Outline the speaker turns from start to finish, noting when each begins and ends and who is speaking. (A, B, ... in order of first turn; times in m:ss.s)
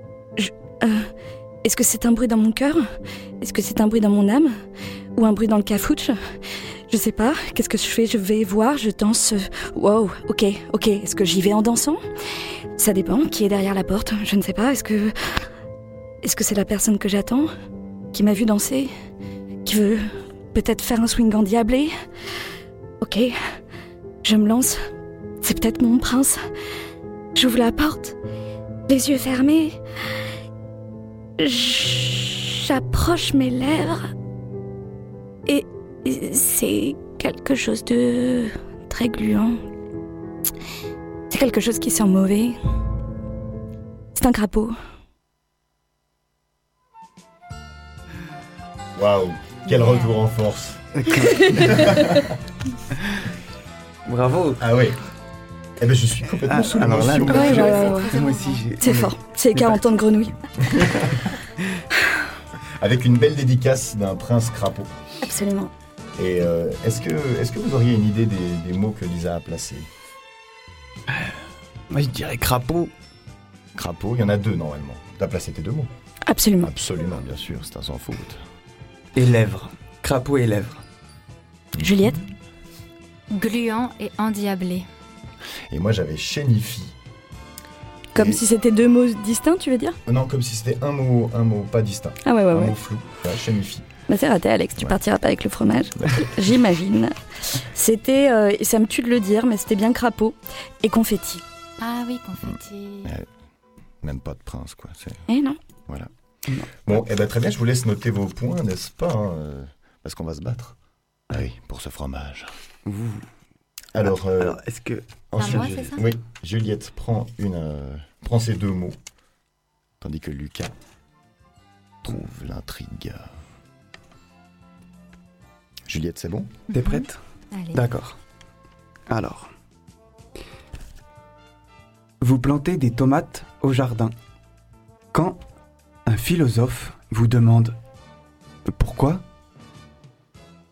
0:00.4-0:01.1 A
0:01.6-0:02.8 A
0:03.4-0:04.5 A
0:05.2-0:06.2 A
0:06.9-0:12.0 A
0:12.8-0:15.4 A
0:16.2-0:17.5 A
0:18.1-0:18.9 A
0:19.6-0:21.9 A
0:23.0-0:23.3 A
0:24.2-0:24.8 A
0:25.4-0:26.4 A
0:27.3-0:28.2 A
0:28.9-0:29.7 A
0:31.4-0:34.1 A
0:35.5-0:39.6 A
0:41.3-0:42.5 A
0:44.1-0:44.7 A
0:49.0-0:51.0 B
0:49.7-0:50.2 C
0:51.0-0:51.8 D
0:51.2-0:52.2 A
0:51.5-0:52.2 B
0:54.0-0:54.6 D
0:54.6-0:55.0 B
0:55.8-0:57.7 B
0:56.5-0:59.8 D
0:57.2-0:58.2 A
0:57.4-0:58.7 C
0:58.8-1:00.4 A
1:00.7-1:01.1 B
1:02.8-1:04.9 B
1:05.2-1:05.7 A
1:06.2-1:09.9 B
1:11.9-1:12.9 D
1:13.8-1:15.9 B
1:16.3-1:16.7 A
1:16.6-1:18.4 B
1:19.1-1:20.8 D
1:21.8-1:22.2 A
1:23.3-1:24.8 C
1:25.7-1:27.0 B
1:28.1-1:30.0 A
1:28.2-1:28.4 B
1:30.0-1:33.9 B
1:32.2-1:32.7 A
1:34.1-1:41.4 A
1:41.8-1:43.1 C
1:42.4-1:43.3 B
1:44.0-1:45.3 B
1:45.3-1:45.6 A
1:46.8-1:50.8 B
1:51.3-1:52.5 B
1:52.8-1:53.2 D
1:53.9-1:54.6 B
1:54.1-1:55.9 D
1:55.3-1:59.0 B
1:55.4-1:56.1 C
2:00.0-2:00.7 B
2:02.0-2:03.3 B
2:05.9-2:06.5 B
2:06.7-2:07.2 D
2:06.7-2:07.8 C
2:07.7-2:08.2 D
2:09.1-2:09.5 D
2:12.2-2:14.1 D
2:15.1-2:15.4 D
2:16.0-2:17.8 D
2:18.6-2:19.2 D